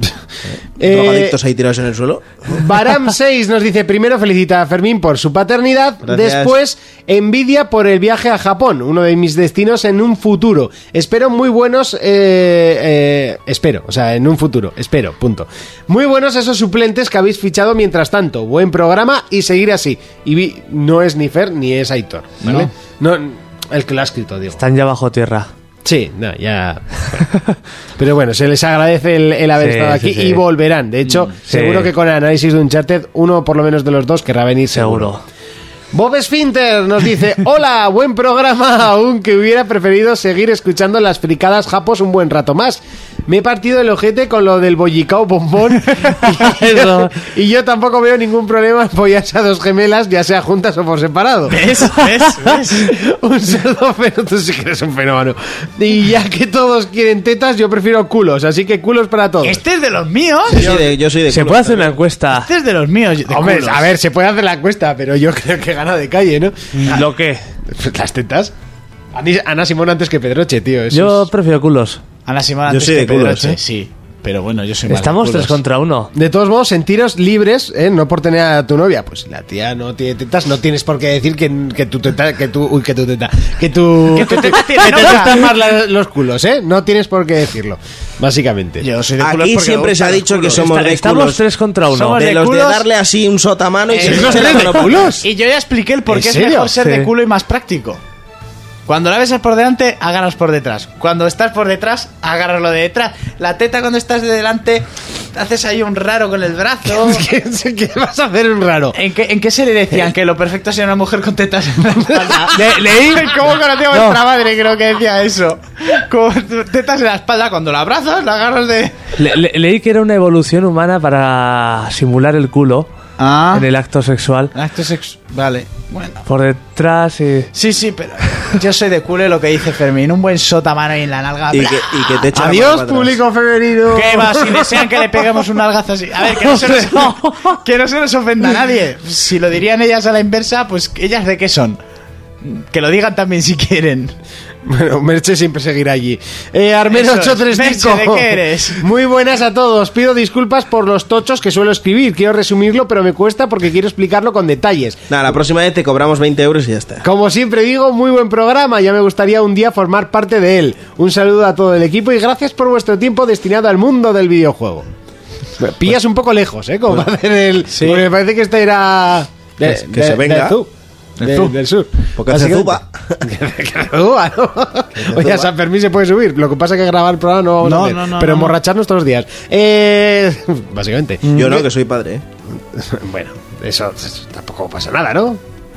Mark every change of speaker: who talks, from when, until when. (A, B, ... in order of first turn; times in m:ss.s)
0:00.4-0:02.6 A
0:00.8-0:01.4 B
0:02.5-0:24.6 B
0:06.0-0:06.5 A
0:22.4-0:22.7 C
0:24.6-0:25.5 D
0:25.8-0:27.2 B
0:28.0-0:35.1 B
0:29.6-0:30.4 D
0:31.5-0:31.9 D
0:34.7-0:35.2 D
0:35.9-0:51.6 B
0:45.9-0:46.4 C
0:46.5-0:47.0 D
0:51.5-0:52.9 C
0:52.8-0:59.6 B
0:59.4-1:00.7 C
1:00.5-1:02.0 A
1:00.6-1:00.9 B
1:01.3-1:02.5 D
1:02.3-1:03.9 C
1:03.3-1:07.1 B
1:06.8-1:07.4 D
1:07.6-1:08.5 B
1:09.1-1:11.3 B
1:10.9-1:12.0 D
1:12.2-1:15.6 C
1:12.7-1:13.6 A
1:14.9-1:16.1 D
1:16.1-1:28.9 B
1:24.1-1:25.5 C
1:28.8-1:30.6 C
1:29.2-1:31.4 A
1:30.5-1:32.2 D
1:31.9-1:32.8 C
1:32.0-1:35.0 A
1:33.9-1:38.0 C
1:34.0-1:35.2 B
1:36.1-1:36.7 B
1:36.8-1:37.1 D
1:38.9-1:47.2 C
1:46.8-1:49.0 B
1:48.9-1:59.0 C
1:52.0-1:52.4 B
1:52.5-1:54.2 D
1:59.2-2:02.9 D
2:03.2-2:03.6 C
2:03.5-2:04.5 D
2:04.5-2:06.2 C
2:06.3-2:07.5 D
2:07.5-2:12.2 C
2:11.5-2:13.2 A
2:12.3-2:15.2 B
2:13.9-2:21.8 C
2:16.8-2:17.3 D
2:22.4-2:24.1 C
2:24.6-2:35.0 B
2:26.9-2:28.8 C
2:35.1-2:37.0 A
2:37.0-2:44.9 B
2:45.6-2:50.7 B
2:47.7-2:48.1 C
2:49.6-2:50.6 A
2:51.2-2:51.5 C
2:51.2-3:01.6 B
2:52.2-2:53.2 A
2:55.0-2:55.5 A
2:57.6-2:58.6 C
3:01.3-3:02.2 A
3:02.7-3:05.4 B